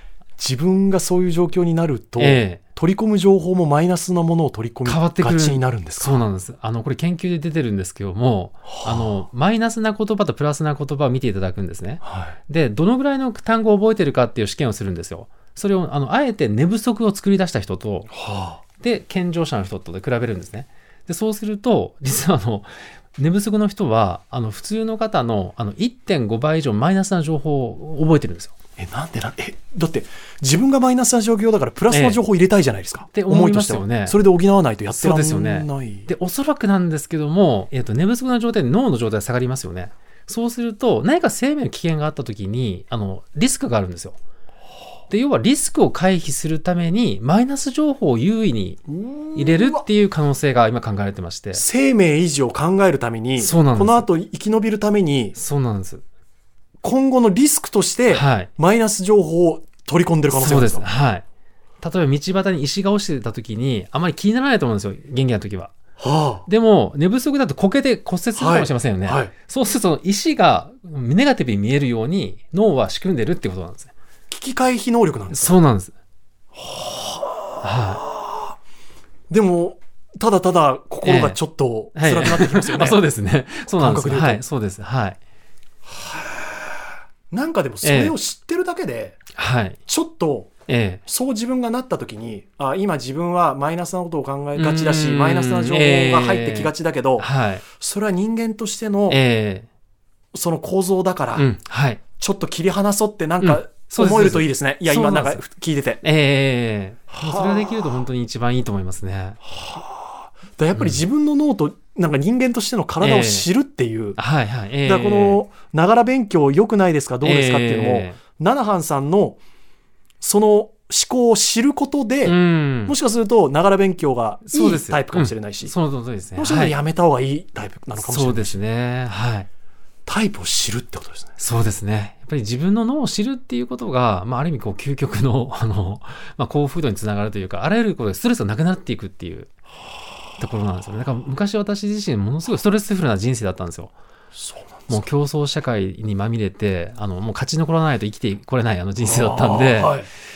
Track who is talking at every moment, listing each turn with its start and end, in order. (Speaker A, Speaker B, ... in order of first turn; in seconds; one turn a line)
Speaker A: 0.4-6.2
Speaker B: 2.2-2.6
Speaker B: 4.8-18.1
Speaker A: 8.7-9.2
Speaker A: 12.0-12.4
Speaker A: 18.1-18.6
Speaker B: 18.8-28.5
Speaker A: 28.8-36.1
Speaker B: 31.9-32.2
Speaker B: 33.1-34.2
Speaker B: 34.9-44.2
Speaker B: 45.1-48.8
Speaker A: 48.9-49.9
Speaker B: 49.4-51.6
Speaker A: 51.5-55.4
Speaker B: 53.4-54.1
Speaker B: 55.4-56.0
Speaker A: 56.8-60.9
Speaker B: 58.1-58.5
Speaker B: 60.3-61.3
Speaker B: 61.8-65.7
Speaker A: 66.0-66.5
Speaker B: 66.5-73.9
Speaker A: 68.4-69.3
Speaker A: 74.3-75.5
Speaker B: 75.3-76.0
Speaker A: 76.6-78.1
Speaker B: 77.6-78.0
Speaker A: 79.3-83.0
Speaker B: 81.0-81.4
Speaker B: 82.0-85.2
Speaker A: 83.7-84.4
Speaker A: 85.9-86.5
Speaker A: 87.3-89.2
Speaker B: 87.8-88.2
Speaker B: 89.3-89.8
Speaker A: 89.9-90.5
Speaker B: 90.7-91.0
Speaker A: 91.1-97.3
Speaker B: 94.6-97.7
Speaker A: 97.8-99.2
Speaker B: 99.1-99.7
Speaker A: 100.3-101.5
Speaker B: 101.4-102.0
Speaker A: 102.2-106.0
Speaker B: 103.4-105.4
Speaker B: 106.0-109.4
Speaker A: 107.1-107.9
Speaker A: 109.5-114.2
Speaker B: 110.8-111.0
Speaker B: 113.0-113.5
Speaker B: 114.2-115.4
Speaker A: 114.8-119.4
Speaker B: 117.2-118.2
Speaker A: 120.2-125.7
Speaker B: 122.2-123.0
Speaker B: 124.5-126.8
Speaker A: 126.4-128.6
Speaker B: 128.0-129.5
Speaker A: 130.1-131.4
Speaker B: 131.4-139.5
Speaker B: 140.4-143.9
Speaker A: 144.3-145.1
Speaker B: 144.9-150.1
Speaker A: 149.0-150.1